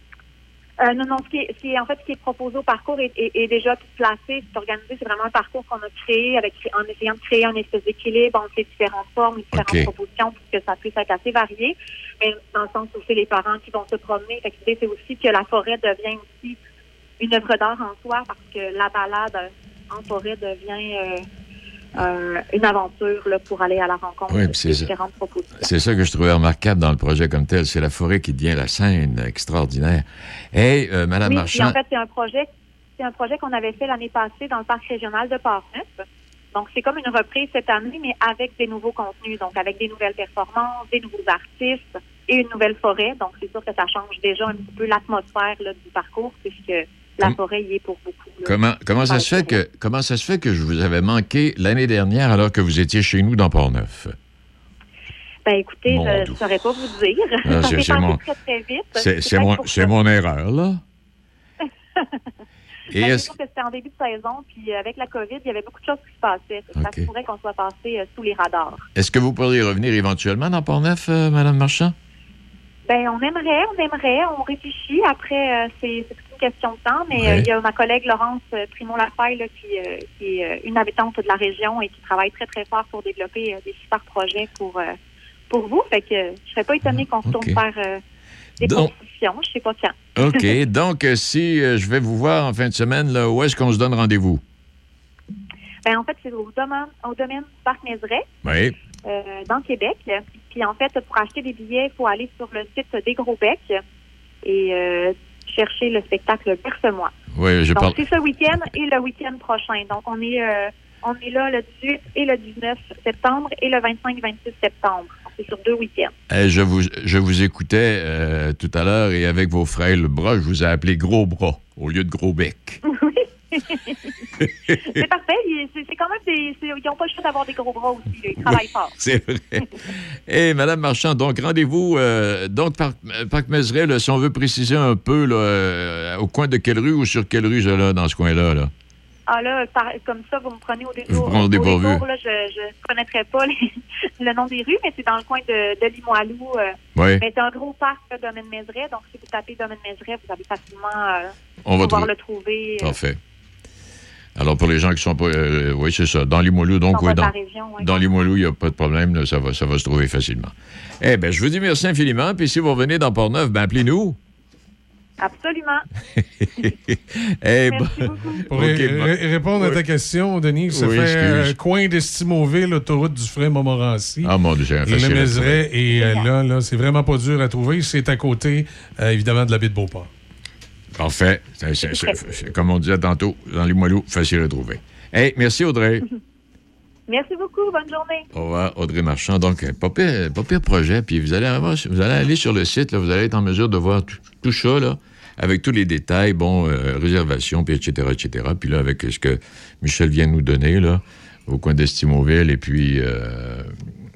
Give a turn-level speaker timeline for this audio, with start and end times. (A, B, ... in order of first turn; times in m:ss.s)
0:00.8-0:16.6 A
0:09.5-0:09.9 B
0:17.2-0:21.2 A
0:22.0-0:25.8 A
0:24.3-0:24.9 B
0:25.6-0:31.8 B
0:31.2-0:36.0 A
0:36.5-0:49.6 A
0:48.4-0:54.1 B
0:55.4-0:59.9 A
0:55.9-0:56.4 B
0:57.4-0:58.2 B
0:58.9-1:00.8 B
1:02.9-1:03.3 B
1:02.9-1:08.9 A
1:06.7-1:07.1 B
1:09.0-1:11.9 B
1:12.9-1:24.9 A
1:17.1-1:17.5 B
1:25.5-1:28.0 A
1:26.8-1:27.6 B
1:28.6-1:30.5 A
1:28.6-1:28.9 B
1:30.2-1:34.4 B
1:35.8-1:38.2 A
1:38.4-1:38.7 B
1:39.0-1:43.8 A
1:44.4-1:47.1 A
1:47.3-1:48.0 B
1:47.7-1:56.1 A
1:56.3-2:02.8 B
2:02.9-2:04.1 A
2:04.7-2:05.0 B
2:04.7-2:08.9 A
2:08.4-2:09.8 B
2:10.3-2:18.7 B
2:19.3-2:23.7 A
2:21.1-2:22.0 B
2:24.2-2:33.0 A
2:26.9-2:27.2 B
2:31.6-2:32.1 B
2:32.8-2:33.2 B
2:34.4-2:44.2 B
2:36.9-2:38.1 A
2:45.2-2:45.8 A
2:46.4-2:49.8 B
2:47.7-2:48.4 A
2:48.5-2:54.3 C
2:50.7-2:51.5 B
2:54.2-2:55.6 B
2:54.9-3:00.1 C
2:55.9-2:56.2 A
3:01.0-3:06.0 B
3:01.8-3:02.2 A
3:07.1-3:08.2 A
3:08.3-3:23.8 B